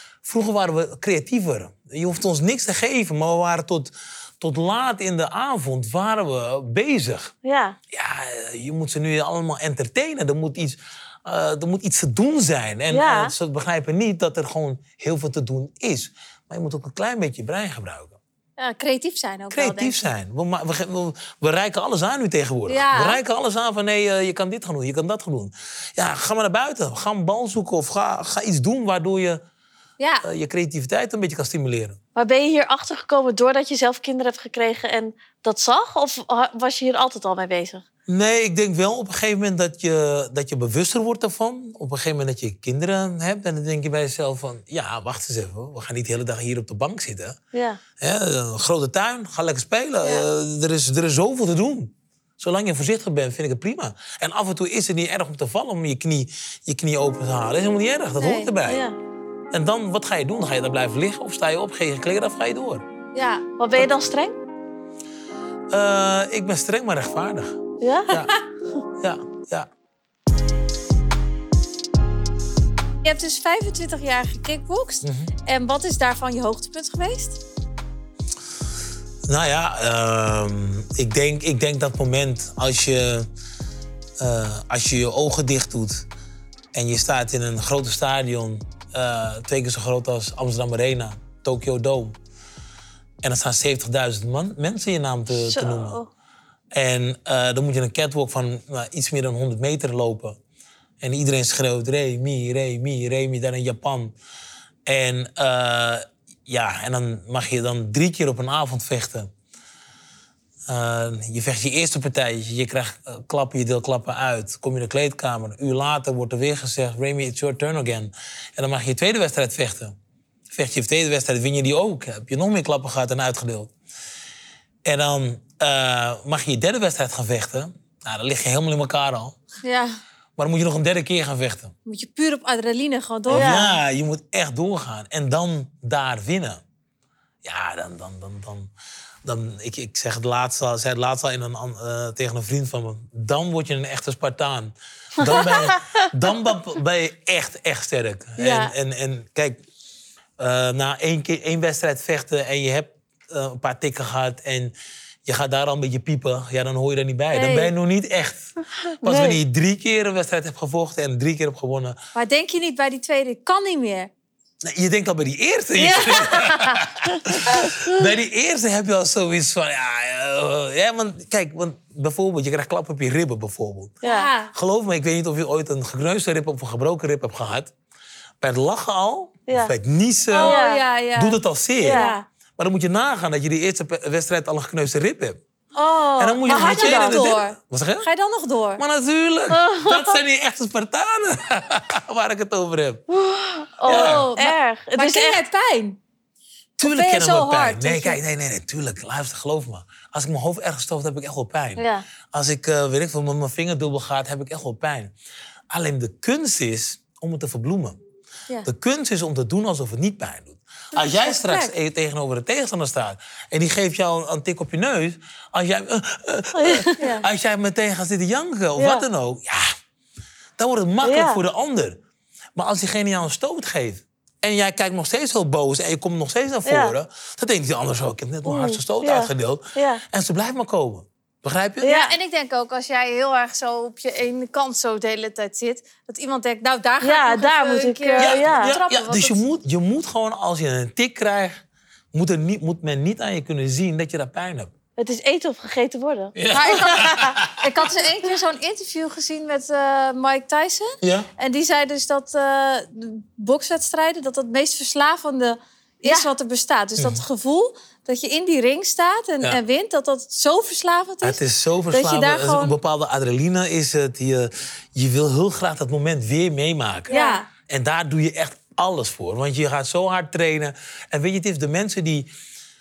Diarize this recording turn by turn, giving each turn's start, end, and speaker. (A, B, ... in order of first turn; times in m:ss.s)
0:00.2-0:07.3 A
0:07.4-0:07.8 B
0:07.9-0:18.2 A
0:12.9-0:13.3 B
0:18.6-0:20.0 C
0:19.5-0:29.4 A
0:22.7-0:23.2 C
0:30.0-0:30.2 C
0:30.2-0:32.0 A
0:32.2-0:37.8 B
0:38.1-0:47.4 A
0:47.5-0:47.8 B
0:48.0-0:58.8 A
0:58.2-0:58.5 C
0:58.6-0:59.0 B
0:59.5-1:02.8 A
1:03.1-1:03.4 C
1:03.6-1:04.4 B
1:05.7-1:08.3 A
1:07.8-1:08.2 B
1:09.0-1:09.7 A
1:13.0-1:17.4 C
1:15.0-1:15.3 A
1:19.2-1:23.3 A
1:24.2-1:26.1 A
1:26.7-1:32.1 A
1:33.2-1:36.0 A
1:35.6-1:36.0 B
1:36.7-1:40.4 A
1:41.0-1:44.1 A
1:44.9-1:49.3 A
1:50.7-1:59.9 A
2:00.5-2:03.7 A
2:04.8-2:09.4 A
2:09.6-2:09.9 C
2:10.4-2:11.7 A
2:11.8-2:13.6 C
2:13.3-2:13.7 B
2:13.3-2:16.6 A
2:17.4-2:18.7 A
2:19.2-2:29.6 A
2:25.2-2:26.1 B
2:28.4-2:28.7 C
2:30.4-2:34.7 A
2:35.2-2:42.0 A
2:37.3-2:37.7 C
2:39.0-2:39.4 B
2:42.1-2:44.1 C
2:44.6-2:54.0 A
2:45.8-2:46.8 C
2:47.5-2:48.0 B
2:54.0-2:54.3 B
2:54.0-2:54.5 C
2:54.5-2:57.7 A
2:58.4-3:00.6 A
2:59.5-2:59.7 B
3:00.3-3:02.2 C
3:00.4-3:00.8 B
3:01.1-3:02.0 A
3:01.8-3:02.2 B
3:02.6-3:05.4 A
3:05.7-3:08.8 C
3:06.2-3:08.1 A
3:06.5-3:07.3 B
3:08.8-3:13.0 A
3:09.5-3:10.2 B
3:13.1-3:15.4 B
3:13.8-3:14.3 A
3:13.9-3:16.0 C
3:16.8-3:25.1 A
3:16.8-3:18.2 C
3:21.8-3:22.0 B
3:25.7-3:28.0 A
3:28.6-3:39.7 A
3:31.0-3:31.7 C
3:36.6-3:37.1 B
3:37.0-3:37.2 C
3:38.8-3:39.0 B
3:40.6-3:42.0 A
3:41.0-3:41.4 B
3:42.6-3:52.0 A
3:46.6-3:46.9 B
3:48.4-3:50.0 B
3:51.8-3:52.1 B
3:51.8-3:59.4 C
3:57.0-3:58.8 B
3:58.2-4:04.7 A
4:05.0-4:07.2 B
4:06.3-4:07.7 A
4:06.5-4:21.4 C
4:11.0-4:11.3 A
4:17.0-4:17.2 A
4:21.2-4:32.3 A
4:21.9-4:22.8 C
4:27.1-4:27.5 C
4:27.1-4:27.4 B